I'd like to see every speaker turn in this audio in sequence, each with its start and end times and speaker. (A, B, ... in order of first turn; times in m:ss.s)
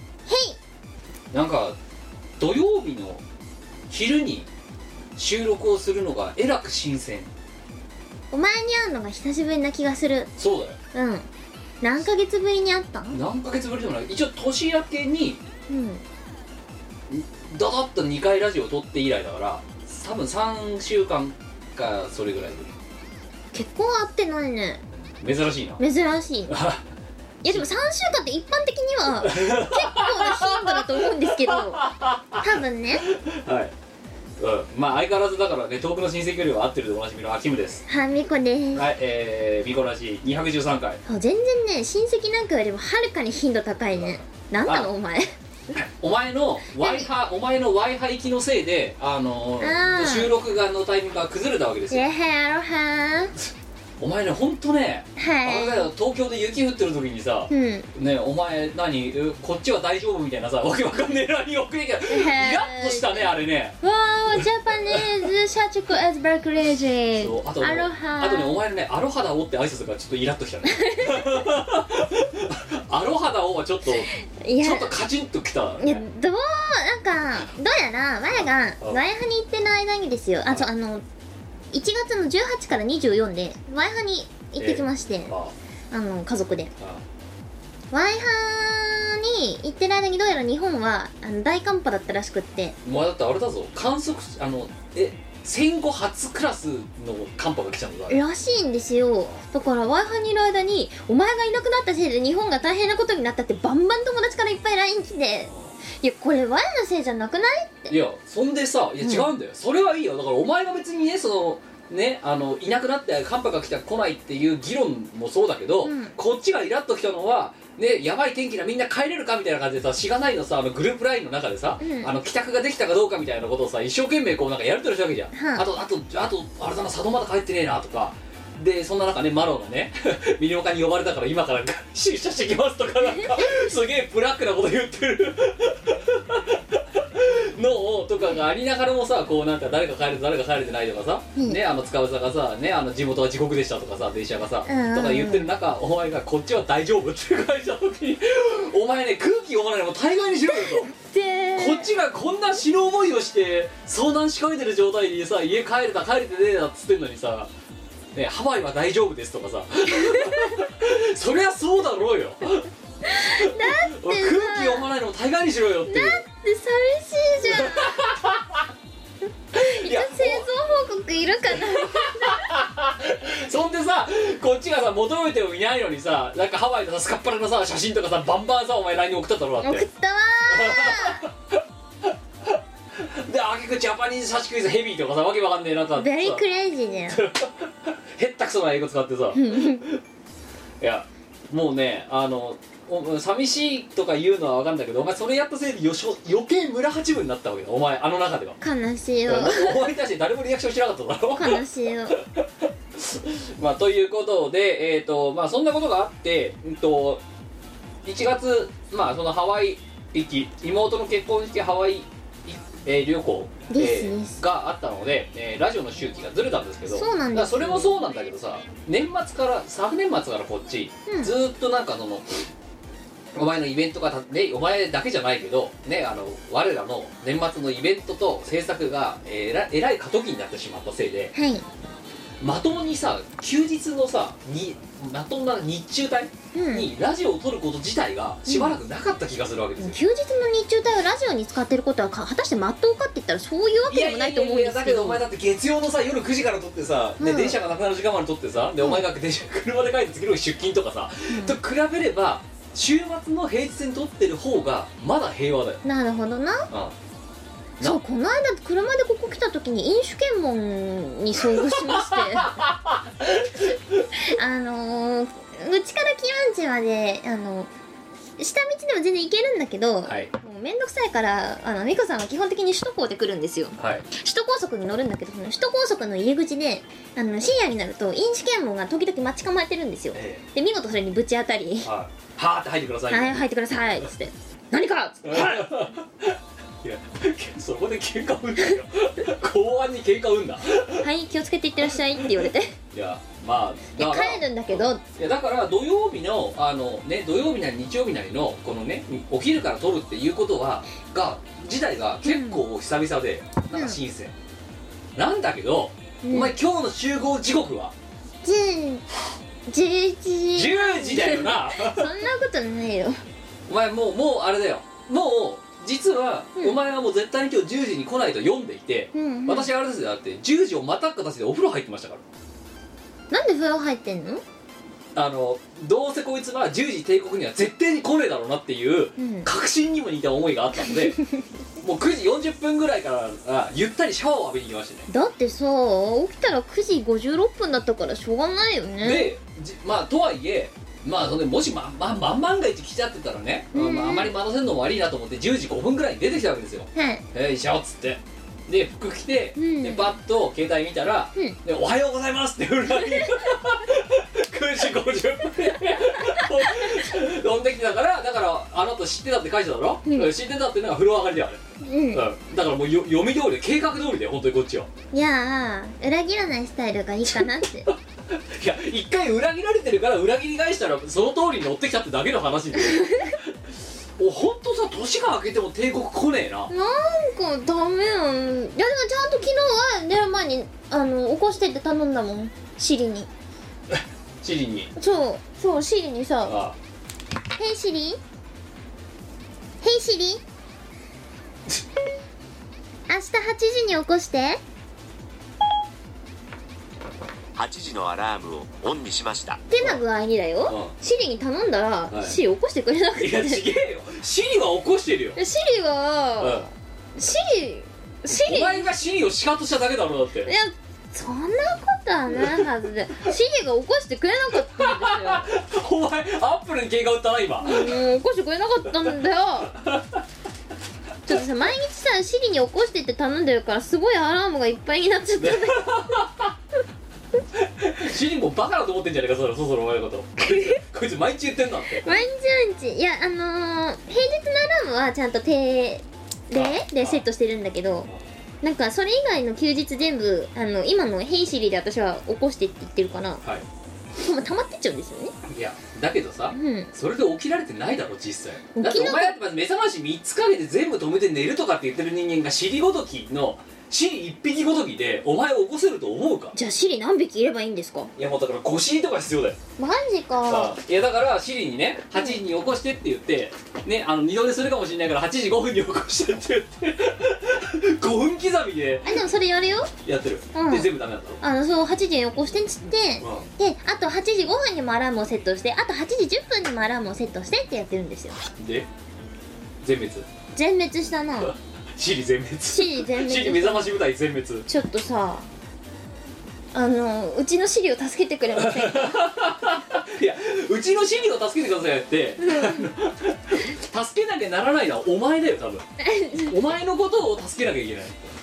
0:00.3-0:00.6 A
0:01.3-0:01.8 B
0:02.4-0:03.2 B
0:03.9-0:04.5 B
0:05.2-0:07.3 B
0:08.3-0:10.3 A
0:10.4-0:10.8 B
0:10.9-0:11.3 A
0:11.8-0:13.2 A
0:13.1-0:15.4 B
0:15.7-0:16.0 A
0:17.1-0:22.7 B
0:23.5-0:24.8 A
0:25.2-0:25.8 B
0:25.8-0:26.6 A
0:26.5-0:26.8 B
0:27.4-0:31.8 A
0:29.2-0:33.7 B
0:32.4-0:33.0 A
0:34.4-0:37.8 B
0:37.9-0:38.9 A
0:38.8-0:41.0 B
0:41.1-0:45.3 A
0:43.9-0:44.9 B
0:45.7-0:52.0 B
0:46.8-0:47.1 A
0:49.6-0:50.3 A
0:51.9-0:53.3 A
0:54.0-1:03.8 B
0:55.2-0:55.9 A
0:57.5-0:57.9 A
1:02.1-1:08.6 A
1:04.4-1:05.1 B
1:07.2-1:14.1 B
1:10.7-1:11.5 A
1:14.1-1:14.9 A
1:14.6-1:16.0 B
1:15.8-1:21.0 A
1:18.3-1:19.0 B
1:21.7-1:25.3 A
1:24.6-1:25.5 B
1:25.9-1:26.7 A
1:26.8-1:27.0 B
1:27.9-1:32.8 A
1:32.8-1:38.2 B
1:38.1-1:48.0 A
1:47.9-2:30.9 B
1:49.0-1:49.3 A
1:55.8-1:56.2 A
2:01.8-2:02.1 A
2:05.3-2:05.7 A
2:13.2-2:13.5 A
2:21.4-2:21.6 A
2:24.6-2:25.5 A
2:30.5-2:31.9 A
2:31.6-2:37.5 B
2:38.1-2:46.2 B
2:40.0-2:40.5 A
2:43.0-2:44.9 A
2:45.9-2:48.0 A
2:47.4-2:48.7 B
2:49.6-2:52.5 A
2:49.6-2:50.5 B
2:51.5-2:59.8 B
2:59.6-3:01.2 A
3:00.5-3:06.4 B
3:06.0-3:07.3 A
3:07.1-3:10.0 B
3:09.3-3:09.9 A
3:10.8-3:18.6 B
3:18.6-3:19.8 A
3:19.3-3:27.2 B
3:21.4-3:22.2 A
3:28.0-3:42.4 B
3:33.7-3:34.4 A
3:36.9-3:38.0 A
3:41.1-3:41.3 A
3:43.3-3:51.3 B
3:51.3-3:51.6 A
3:52.4-4:00.0 B
3:56.5-3:56.9 A
3:58.5-3:58.8 A
3:59.8-4:05.2 A
4:03.9-4:15.8 B
4:07.2-4:07.6 A
4:08.8-4:09.1 A
4:11.3-4:11.6 A
4:15.8-4:16.7 A
4:16.7-4:17.0 B
4:17.8-4:22.6 A
4:21.4-4:24.0 B
4:24.2-4:27.7 A
4:28.4-4:41.9 A
4:30.1-4:30.3 B
4:33.8-4:34.1 B
4:40.1-4:40.4 B
4:41.8-4:43.4 B
4:43.1-4:45.9 A
4:45.2-4:51.1 B
4:51.0-4:52.8 A
4:51.9-5:04.3 B
4:54.0-4:55.0 A
5:02.2-5:02.6 A
5:03.7-5:04.0 A
5:05.2-5:07.9 B
5:06.2-5:06.5 A
5:08.4-5:09.0 A
5:09.7-5:13.2 A
5:10.6-5:12.1 B
5:13.7-5:22.2 B
5:19.1-5:19.7 A
5:23.3-5:24.4 A
5:25.2-5:31.2 B
5:29.2-5:29.5 A
5:31.8-5:35.1 B
5:35.1-5:39.3 A
5:39.0-6:01.6 B
5:43.7-5:44.3 A
5:47.0-5:47.2 A
5:49.6-5:50.1 A
5:53.0-5:53.5 A
5:56.2-5:57.0 A
6:00.0-6:00.3 A
6:01.8-6:02.2 A
6:02.1-6:04.9 B
6:05.1-6:07.9 A
6:07.3-6:13.5 B
6:12.9-6:13.4 A
6:14.2-6:16.7 B
6:16.7-6:23.3 A
6:23.9-6:24.9 B
6:25.0-6:26.6 A
6:26.5-6:26.8 B
6:27.6-6:28.2 A
6:29.8-6:30.4 A
6:33.1-6:34.6 A
6:37.6-6:39.6 C
6:39.7-6:43.6 A
6:40.7-6:40.9 B
6:42.1-6:42.4 B
6:43.2-6:45.4 B
6:45.4-6:48.9 A
6:46.4-6:46.7 B
6:48.3-6:50.6 B
6:50.5-6:55.5 A
6:52.4-6:52.6 B
6:54.5-6:57.9 B
6:57.6-6:59.8 A
6:59.8-7:00.2 B
7:01.3-7:06.2 A
7:05.4-7:06.5 B
7:07.5-7:12.2 B
7:10.5-7:10.8 A
7:12.0-7:18.1 A
7:16.5-7:17.3 B
7:18.6-7:23.4 A
7:24.2-7:25.3 A
7:25.5-7:36.6 B
7:26.5-7:26.9 A
7:28.8-7:29.4 A
7:36.5-7:38.1 A
7:38.2-7:39.6 B
7:39.8-7:40.8 A
7:40.5-7:49.2 B
7:49.0-7:49.9 A
7:50.0-7:51.4 B
7:50.5-7:50.9 A
7:51.4-7:58.4 A
7:53.2-7:53.5 B
7:58.6-7:58.9 B
7:59.8-8:00.3 B
8:00.5-8:01.6 A
8:01.4-8:04.7 B
8:02.7-8:04.0 A
8:04.7-8:05.5 A
8:06.7-8:09.3 A
8:08.6-8:15.9 B
8:12.4-8:12.9 A
8:16.0-8:16.6 A
8:16.5-8:18.3 B